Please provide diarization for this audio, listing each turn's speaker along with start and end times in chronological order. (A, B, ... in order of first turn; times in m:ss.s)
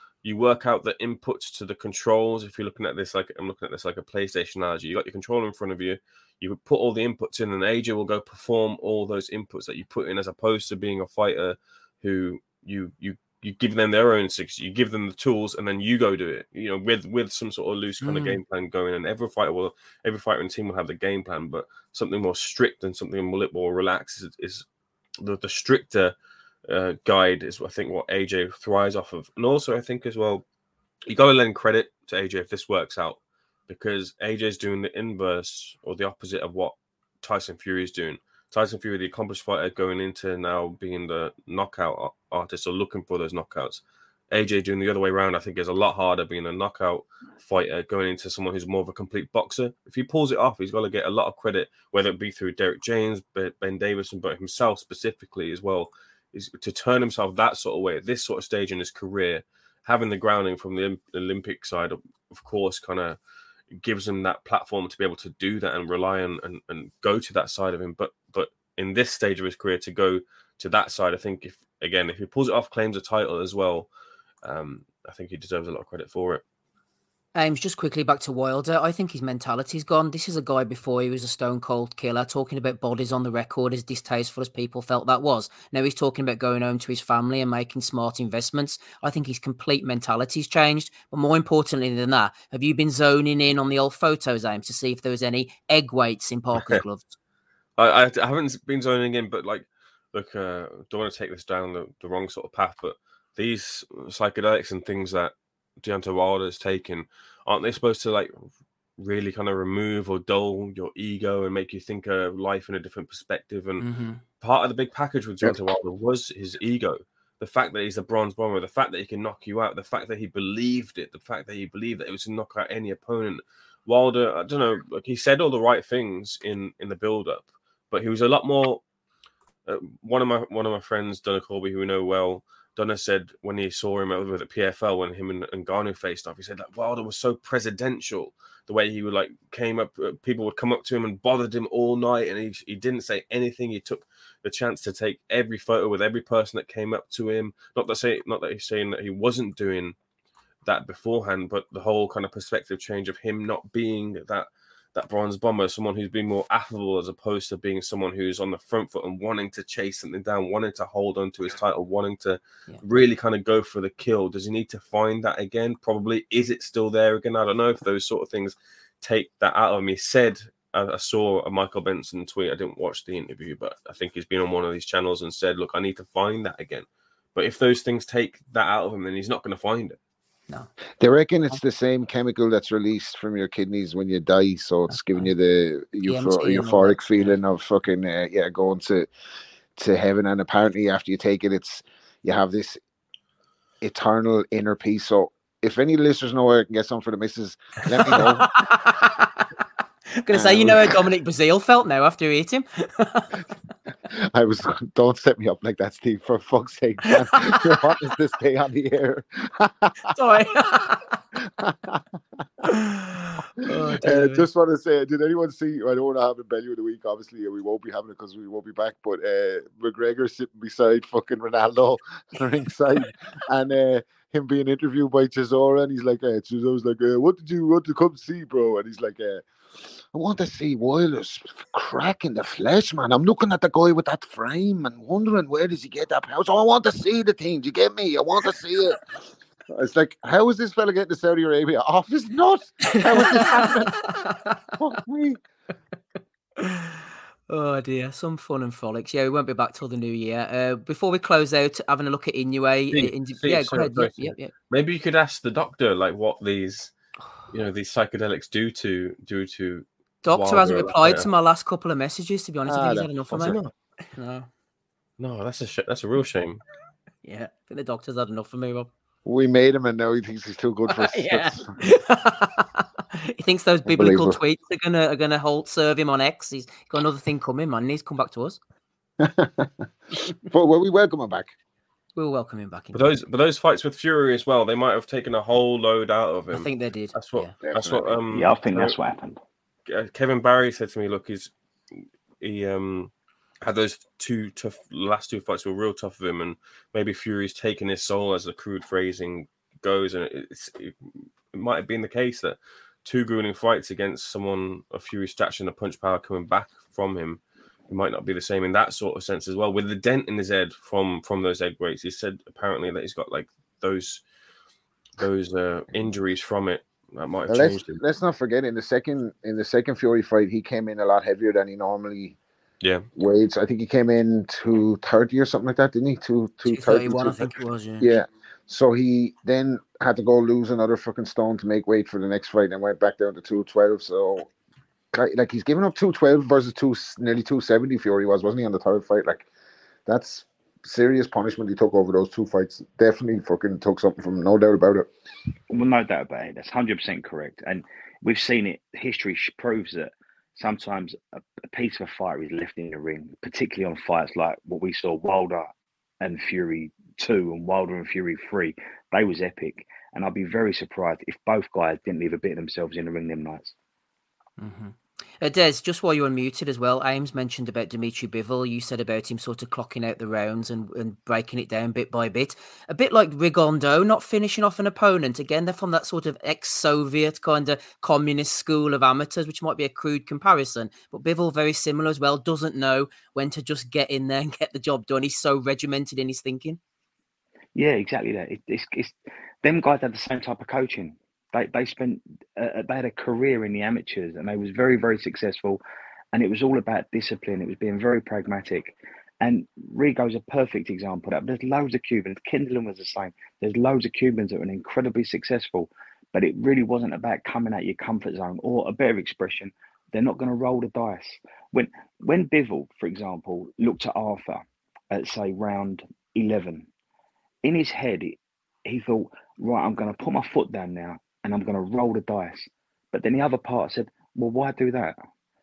0:00.2-0:24.7 A
0:18.0-0:18.4 B
0:25.2-0:26.2 A
0:26.7-0:30.4 A
0:31.1-1:03.2 A
1:03.8-1:13.9 A
1:14.4-1:16.4 A
1:17.4-1:37.2 B
1:37.8-1:48.4 A
1:49.0-1:53.8 A
1:53.8-1:54.2 B
1:54.4-2:08.8 A
2:09.7-2:30.0 A
2:30.6-3:00.0 A
3:01.0-3:09.1 C
3:04.9-3:05.3 B
3:06.0-3:07.4 B
3:09.8-3:12.8 C
3:13.8-3:18.5 C
3:18.1-3:19.4 B
3:20.2-3:23.4 B
3:20.3-3:20.9 C
3:24.1-3:30.1 C
3:27.3-3:27.8 B
3:30.1-3:31.2 B
3:31.5-3:32.0 C
3:32.7-3:34.5 B
3:33.8-3:59.0 C
3:59.7-4:04.2 C
4:03.1-4:03.6 B
4:04.7-4:05.4 C
4:06.6-4:14.5 B
4:12.9-4:16.9 A
4:17.5-4:21.3 A
4:20.2-4:23.6 B
4:22.7-4:23.7 C
4:23.3-4:23.7 A
4:24.1-4:24.5 B
4:25.2-4:26.6 A
4:27.2-4:28.9 B
4:29.2-4:31.7 C
4:30.9-4:38.6 B
4:33.9-4:34.4 C
4:39.2-4:41.5 C
4:42.2-4:43.1 B
4:42.9-4:48.9 A
4:46.5-4:47.6 B
4:47.6-4:48.2 C
4:48.3-4:49.4 D
4:49.9-5:01.0 A
5:01.5-5:14.2 A
5:15.2-5:18.0 A
5:17.5-5:22.4 C
5:23.2-5:34.5 C
5:26.7-5:28.1 B
5:35.1-5:39.5 C
5:40.1-5:45.1 C
5:45.7-5:55.7 D
5:56.2-6:03.7 D
6:04.6-6:26.8 B
6:27.8-6:35.8 D
6:36.3-6:56.9 D
6:57.6-7:05.2 D